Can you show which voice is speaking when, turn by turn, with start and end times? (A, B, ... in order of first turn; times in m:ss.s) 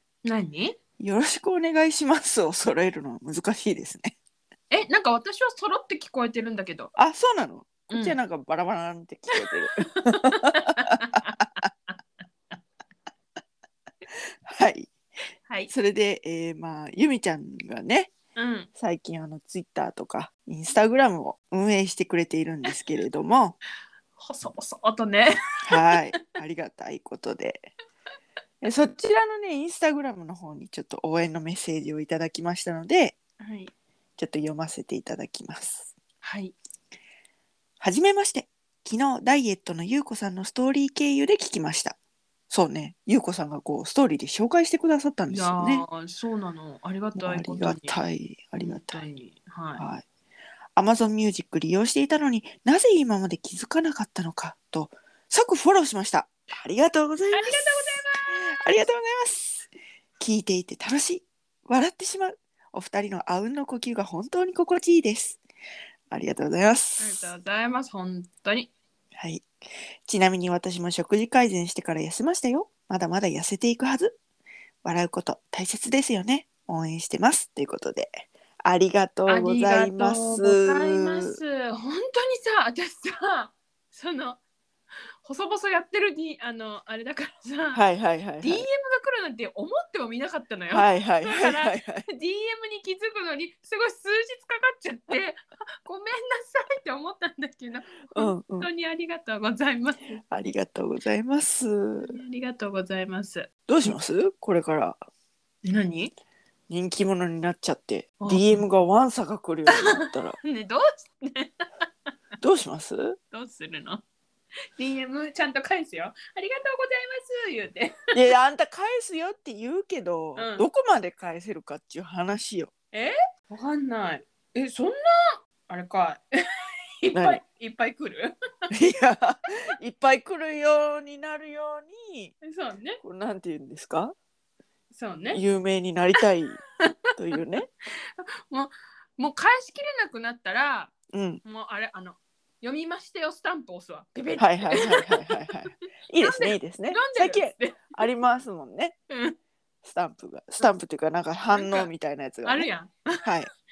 0:00.2-0:00.8 A
0:01.0-0:04.1 B
0:04.7-0:06.9 A
0:07.0-0:11.3 B
0:07.9-0:08.2 A
0:09.6-0:12.0 A
0:14.4-0:14.9 B
0:15.7-0:18.1 B
0:18.3-0:18.7 A
0:18.8-0:23.6 B
0:24.2-0:26.2 A
0:25.6-0:27.7 B
0:28.6-0:33.2 B
0:33.4-0:33.7 A
0:34.2-0:35.9 B
0:36.2-0:36.5 A
0:37.8-0:42.0 B
0:42.5-0:45.8 B
0:45.3-0:48.0 A
0:47.1-0:49.0 B
0:48.6-0:49.8 A
0:49.8-0:50.0 B
0:50.8-1:05.4 B
0:57.3-0:58.7 A
1:06.1-1:07.3 B
1:07.0-1:08.7 A
1:09.1-1:09.5 B
1:10.0-1:14.2 B
1:14.8-1:21.4 B
1:19.3-1:24.4 A
1:25.2-1:27.8 A
1:27.7-1:28.6 B
1:28.4-1:40.2 A
1:30.7-1:32.0 B
1:38.1-1:38.7 B
1:40.3-1:42.2 B
1:42.0-1:43.9 A
1:43.7-1:45.0 B
1:45.6-1:46.1 A
1:46.7-1:50.4 B
1:48.2-1:48.6 A
1:49.7-1:51.8 A
1:52.4-1:53.2 B
1:53.3-1:54.0 A
1:54.8-1:58.1 A
1:58.1-2:02.7 B
2:00.4-2:00.7 A
2:02.9-2:05.1 A
2:05.7-2:06.2 A
2:07.0-2:08.7 A
2:07.1-2:07.4 B
2:08.7-2:12.3 B
2:12.4-2:13.0 A
2:13.0-2:14.1 B
2:14.9-2:15.4 A
2:15.3-2:16.6 B
2:17.1-2:17.7 B
2:18.0-2:20.9 A
2:21.1-2:21.4 B
2:21.4-2:25.6 A
2:24.4-2:28.9 B
2:26.2-2:28.0 A
2:29.1-2:29.4 A
2:29.8-2:32.7 B
2:31.5-2:31.9 A
2:32.4-2:33.3 A